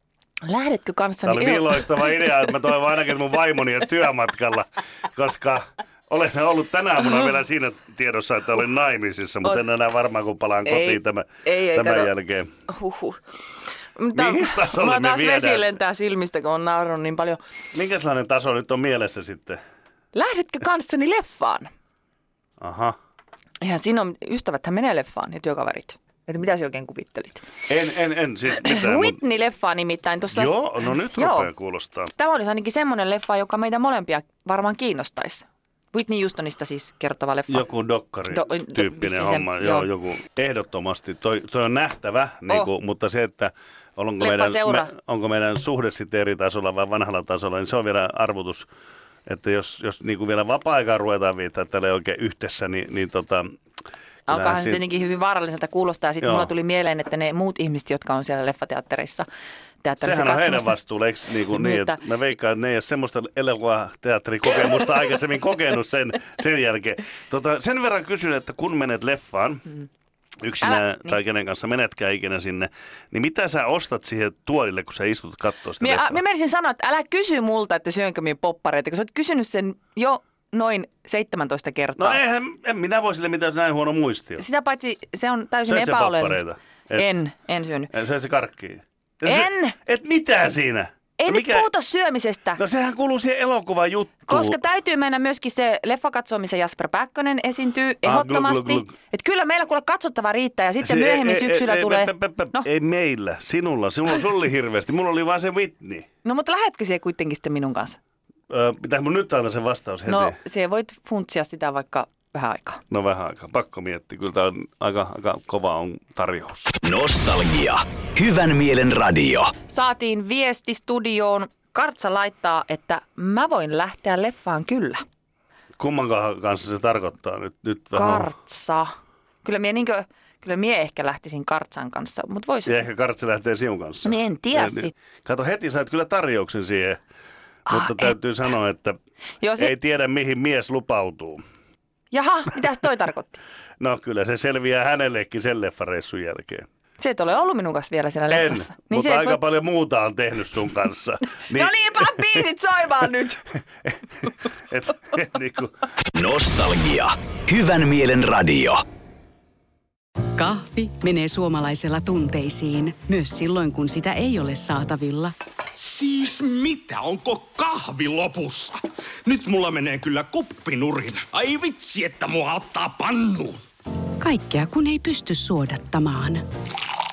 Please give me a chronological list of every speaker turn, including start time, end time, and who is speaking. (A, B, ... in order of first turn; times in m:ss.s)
0:00.4-0:02.5 A
0:01.2-0:12.5 B
0:10.7-0:12.1 A
0:12.7-0:13.2 A
0:14.0-0:17.4 A
0:14.1-0:15.8 B
0:17.7-0:19.6 B
0:20.1-0:21.7 A
0:22.6-0:23.0 B
0:23.6-0:27.5 A
0:27.7-0:29.2 B
0:28.6-0:31.5 A
0:30.3-0:32.1 B
0:32.1-0:37.7 A
0:37.5-0:48.7 B
0:38.3-0:39.9 A
0:44.2-0:44.9 A
0:49.3-0:53.5 B
0:54.3-0:59.3 A
0:54.3-0:54.8 B
0:56.2-0:56.5 B
0:59.8-1:00.8 A
1:00.0-1:09.7 B
1:01.5-1:02.0 A
1:10.4-1:16.2 B
1:10.6-1:11.2 A
1:15.8-1:22.2 A
1:22.0-1:24.4 B
1:24.4-1:27.9 A
1:25.7-1:27.1 B
1:27.9-1:31.7 B
1:29.2-1:29.8 A
1:31.2-1:32.6 A
1:32.6-1:34.6 B
1:34.3-1:42.7 A
1:38.0-1:38.9 B
1:40.8-1:46.1 B
1:46.2-1:48.0 A
1:48.5-1:50.4 B
1:50.1-1:52.8 A
1:52.9-1:56.8 B
1:56.8-1:59.5 C
1:59.7-2:05.0 A
2:05.8-2:08.3 B
2:07.9-2:08.9 A
2:09.4-2:12.7 A
2:12.7-2:17.0 B
2:14.0-2:14.9 A
2:17.7-2:18.1 A
2:17.7-2:19.0 B
2:19.4-2:19.7 A
2:19.6-2:21.4 B
2:22.1-2:23.4 A
2:23.8-2:26.7 B
2:27.0-2:29.4 A
2:28.3-2:32.4 B
2:31.5-2:33.4 A
2:33.8-2:35.8 B
2:36.1-2:38.8 C
2:40.4-2:45.3 D
2:45.8-2:53.6 E
2:54.2-2:56.4 D